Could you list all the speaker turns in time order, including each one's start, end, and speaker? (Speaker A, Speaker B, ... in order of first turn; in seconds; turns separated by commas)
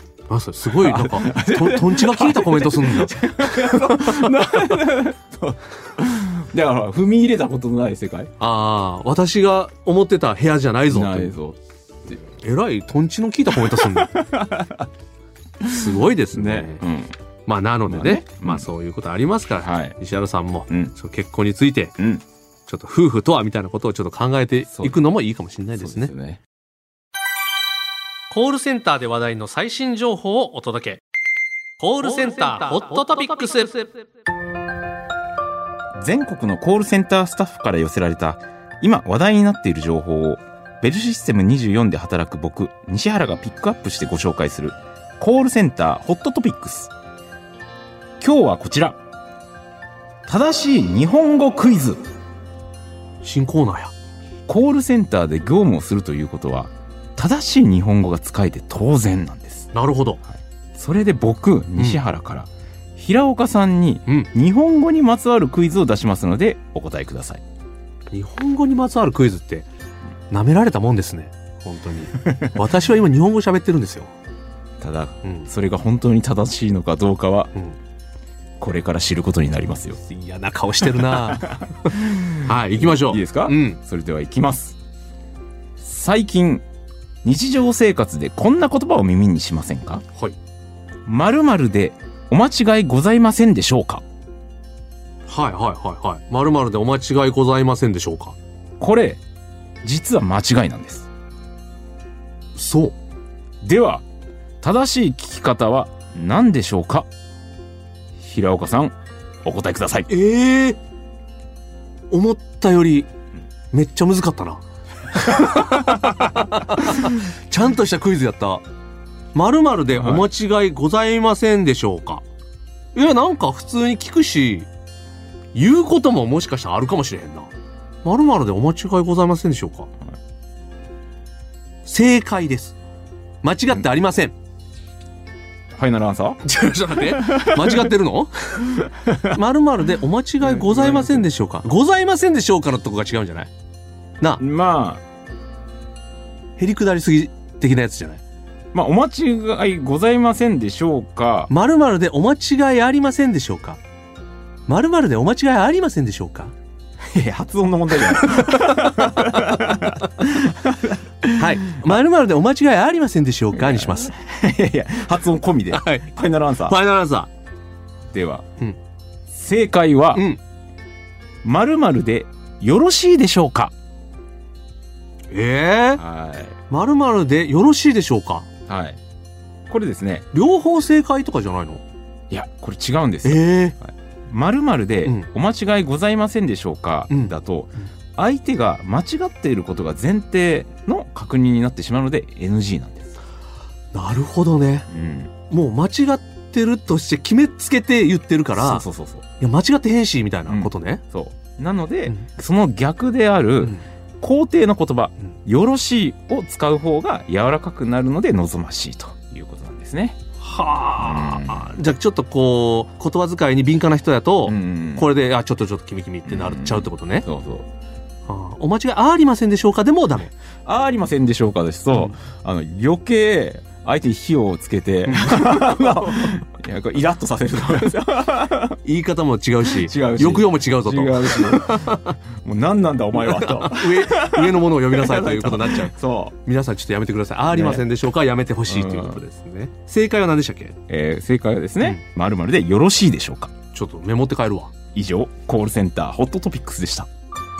Speaker A: 0.3-4.8, Speaker B: 0.7-8.3, Speaker A: 8.4-11.3, Speaker B: 10.9-11.6, Speaker A: 12.1-14.2, Speaker B: 13.6-14.9, Speaker A: 15.6-16.8, Speaker B: 15.6-17.1, Speaker A: 17.5-21.9, Speaker B: 17.9-18.7, Speaker B: 19.6-20.0, Speaker B: 22.0-22.2, Speaker A: 22.7-26.1, Speaker B: 24.7-25.0, Speaker B: 25.8-26.4, Speaker A: 28.3-31.0, Speaker A: 31.8-33.9, Speaker B: 36.0-46.9, Speaker B: 48.2-49.0, Speaker B: 50.2-52.0, Speaker A: 53.2-53.9, Speaker B: 54.5-59.7, Speaker A: 59.7-60.2, Speaker B: 60.7-67.4, Speaker A: 61.8-62.0, Speaker A: 68.1-69.7, Speaker A: 70.3-74.1, Speaker B: 74.8-77.5, Speaker A: 75.2-75.5, Speaker B: 78.6-80.0, Speaker A: 80.0-83.8, Speaker B: 81.2-84.8, Speaker B: 85.8-86.6, Speaker B: 87.2-90.0, Speaker B: 91.0-94.0, Speaker A: 95.3-98.3, Speaker B: 98.8-99.2, Speaker B: 99.8-101.1, Speaker A: 102.5-103.0, Speaker B: 103.6-104.0, Speaker B: 104.6-107.1, Speaker B: 108.2-110.1, Speaker A: 110.1-110.8, Speaker A: 112.1-113.1, Speaker A: 113.7-114.6, Speaker A: 115.1-118.6, Speaker B: 115.6-116.0, Speaker A: 119.3-122.2, Speaker B: 119.9-120.3, Speaker A: 122.9-124.7, Speaker A: 125.5-127.5, Speaker A: 128.0-129.9, Speaker A: 131.8-132.8, Speaker A: 133.4-134.3, Speaker B: 135.8-136.4, Speaker A: 136.4-143.5, Speaker B: 137.0-137.9, Speaker B: 138.8-139.4, Speaker B: 140.4-141.3, Speaker B: 144.4-145.0, Speaker A: 146.6-148.2, Speaker B: 148.7-151.5, Speaker A: 151.5-153.8, Speaker A: 154.7-156.5, Speaker B: 157.1-162.0, Speaker A: 157.9-160.0, Speaker A: 161.3-164.1, Speaker B: 163.5-166.8, Speaker A: 165.7-166.1, Speaker A: 166.6-167.3, Speaker B: 168.1-168.4, Speaker B: 169.3-170.2, Speaker A: 170.1-170.4, Speaker B: 171.4-173.7, Speaker A: 175.3-176.0, Speaker B: 176.0-176.6, Speaker A: 176.7-178.5, Speaker B: 178.7-179.0, Speaker B: 179.7-180.3, Speaker A: 180.3-181.8, Speaker B: 182.3-193.1, Speaker A: 183.2-183.7, Speaker A: 187.1-187.3, Speaker A: 193.9-194.9, Speaker B: 194.9-195.3, Speaker A: 195.5-198.8, Speaker B: 198.6-199.2, Speaker A: 199.4-201.0, Speaker B: 200.5-210.2, Speaker A: 210.4-217.2, Speaker B: 211.0-211.8, Speaker B: 214.4-215.1, Speaker B: 216.2-217.7, Speaker A: 218.3-220.3, Speaker B: 220.7-228.8, Speaker A: 225.1-226.3, Speaker A: 228.8-232.2, Speaker B: 229.7-236.3, Speaker A: 233.1-235.9, Speaker A: 236.4-240.8, Speaker B: 237.5-237.8, Speaker B: 238.7-239.2, Speaker B: 240.9-243.5, Speaker A: 243.7-244.7, Speaker B: 244.9-247.1